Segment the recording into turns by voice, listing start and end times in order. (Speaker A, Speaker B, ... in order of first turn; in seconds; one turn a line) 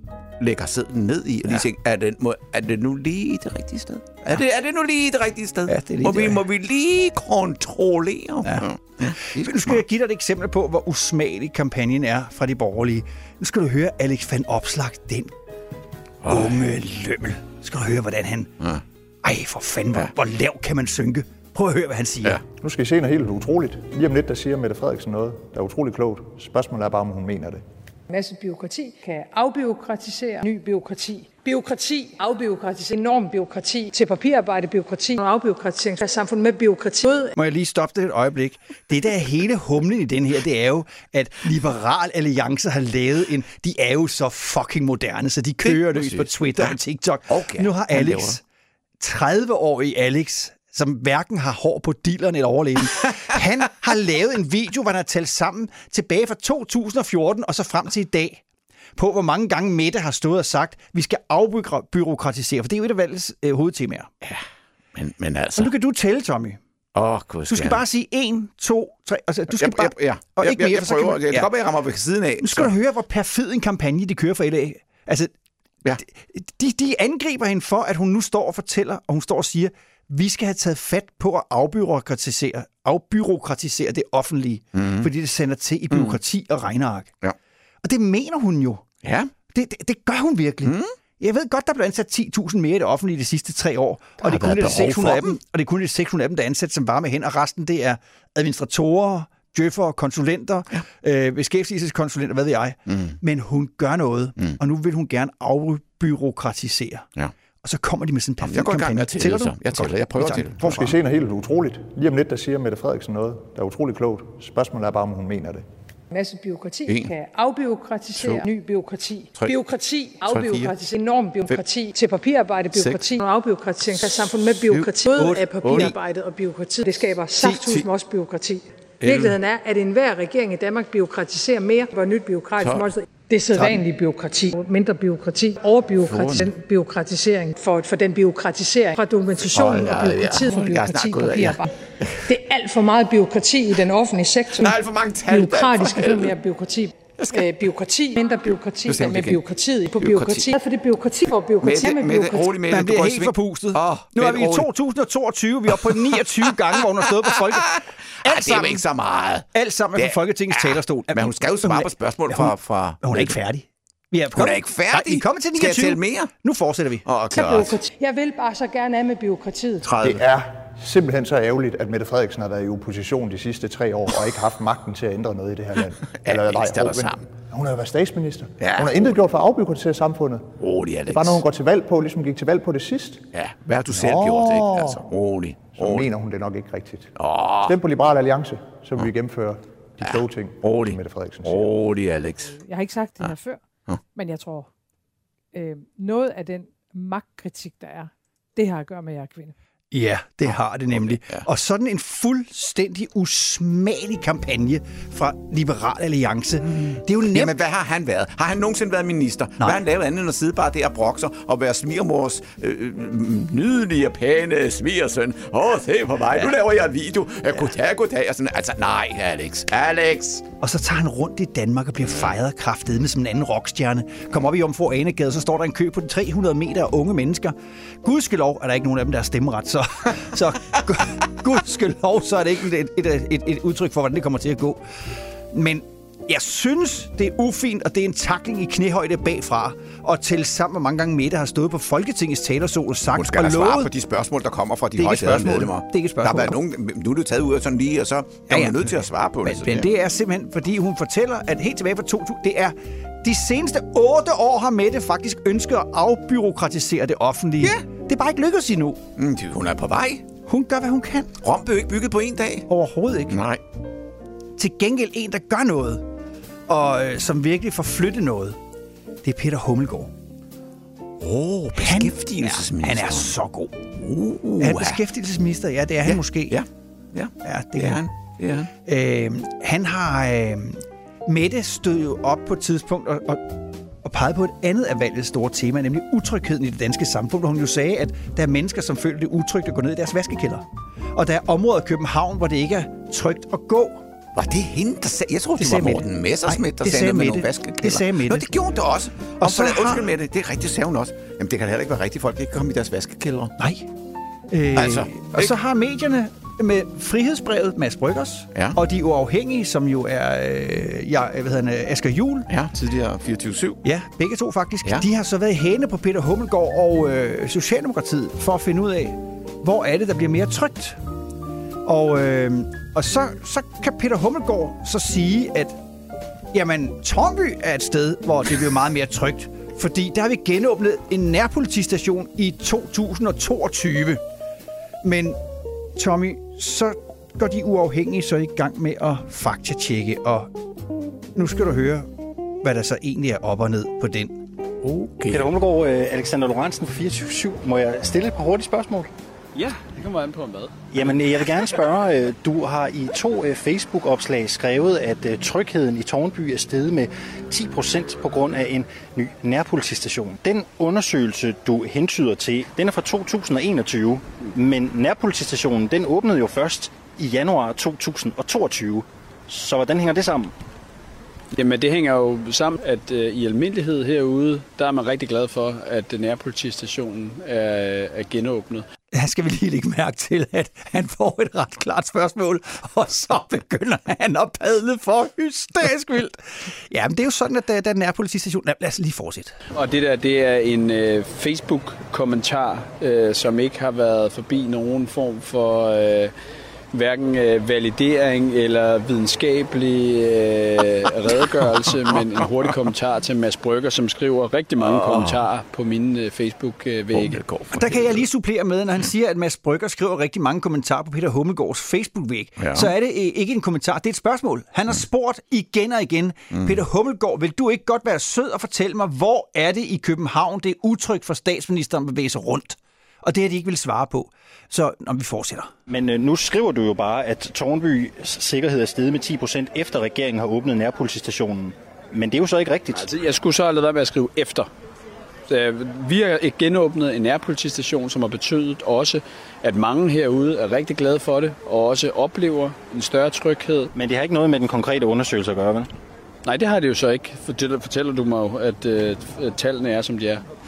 Speaker A: 0.4-9.8
Speaker B: 5.7-6.4
Speaker B: 8.4-15.3
Speaker A: 16.2-16.6
Speaker B: 16.3-18.5
Speaker B: 19.2-22.4
Speaker C: 22.6-27.6
Speaker D: 28.1-37.3
Speaker B: 37.3-48.4
Speaker A: 45.6-48.4
Speaker B: 49.0-58.4
Speaker B: 59.0-64.1
Speaker A: 64.2-65.7
Speaker B: 65.6-66.6
Speaker A: 66.9-67.8
Speaker B: 67.5-71.5
Speaker A: 69.5-72.7
Speaker B: 72.4-75.3
Speaker B: 76.0-87.1
Speaker A: 84.7-85.1
Speaker A: 85.9-86.2
Speaker B: 87.8-88.8
Speaker A: 89.0-89.3
Speaker B: 89.5-107.1
Speaker A: 90.6-90.9
Speaker A: 94.2-95.4
Speaker A: 102.9-103.2
Speaker B: 107.6-111.0
Speaker A: 108.4-110.9
Speaker C: 110.7-115.6
Speaker D: 116.1-141.7
Speaker A: 116.8-117.1
Speaker A: 118.2-118.4
Speaker A: 120.2-120.7
Speaker A: 122.7-123.0
Speaker A: 124.7-125.0
Speaker B: 125.1-125.9
Speaker A: 125.6-125.9
Speaker A: 127.5-127.8
Speaker A: 129.0-129.4
Speaker A: 132.6-132.9
Speaker A: 133.5-133.8
Speaker A: 136.0-136.5
Speaker A: 139.4-142.3
Speaker D: 142.2-152.5
Speaker A: 144.5-146.3
Speaker A: 147.2-147.5
Speaker A: 148.8-149.4
Speaker A: 150.0-150.5
Speaker A: 151.6-154.7
Speaker B: 152.7-158.8
Speaker A: 155.8-156.5
Speaker A: 157.2-163.4
Speaker B: 159.5-167.1
Speaker A: 164.3-166.3
Speaker A: 167.0-167.8
Speaker D: 167.3-169.9
Speaker A: 169.8-170.2
Speaker C: 170.0-180.5
Speaker A: 176.1-177.2
Speaker A: 178.6-179.2
Speaker A: 180.6-181.4
Speaker C: 181.1-183.2
Speaker A: 183.3-186.1
Speaker C: 183.9-185.1
Speaker C: 185.7-191.7
Speaker A: 187.2-187.8
Speaker A: 190.0-192.6
Speaker D: 192.6-193.6
Speaker D: 194.2-194.7
Speaker D: 195.5-199.5
Speaker B: 199.9-207.5
Speaker A: 200.5-201.4
Speaker A: 206.7-220.4
Speaker B: 220.6-234.8
Speaker A: 222.0-222.3
Speaker B: 235.5-243.9
Speaker A: 243.1-249.9
Speaker B: 244.9-246.6
Speaker B: 248.5-259.0
Speaker A: 259.1-260.2
Speaker B: 260.5-261.3
Speaker A: 261.4-262.7
Speaker B: 262.7-263.4
Speaker A: 263.3-263.6
Speaker B: 264.6-266.1
Speaker B: 266.7-268.6
Speaker B: 269.2-270.1
Speaker A: 271.2-273.3
Speaker B: 271.7-273.8
Speaker A: 273.9-275.0
Speaker B: 274.6-276.6
Speaker A: 276.0-278.7
Speaker B: 277.4-278.0
Speaker B: 278.9-294.0
Speaker A: 294.3-303.5
Speaker B: 295.6-298.5
Speaker B: 299.4-300.1
Speaker B: 303.6-303.9
Speaker B: 304.5-312.5
Speaker A: 304.7-305.6
Speaker A: 312.5-313.8
Speaker B: 313.8-321.0
Speaker B: 321.8-325.8
Speaker B: 326.5-334.2
Speaker B: 335.0-335.4
Speaker B: 335.9-340.5
Speaker B: 341.4-342.1
Speaker B: 342.6-344.4
Speaker A: 344.8-345.4
Speaker E: 345.3-349.1
Speaker F: 349.5-350.8
Speaker E: 350.9-370.5
Speaker F: 371.5-378.9
Speaker B: 379.1-389.5
Speaker F: 389.7-396.3
Speaker F: 396.9-407.4
Speaker A: 404.8-405.4
Speaker A: 407.1-408.2
Speaker B: 407.7-425.7
Speaker A: 412.6-412.9
Speaker A: 416.5-416.8
Speaker E: 425.9-433.1
Speaker F: 432.9-434.7
Speaker F: 435.5-443.9
Speaker E: 443.9-445.9
Speaker F: 446.4-450.4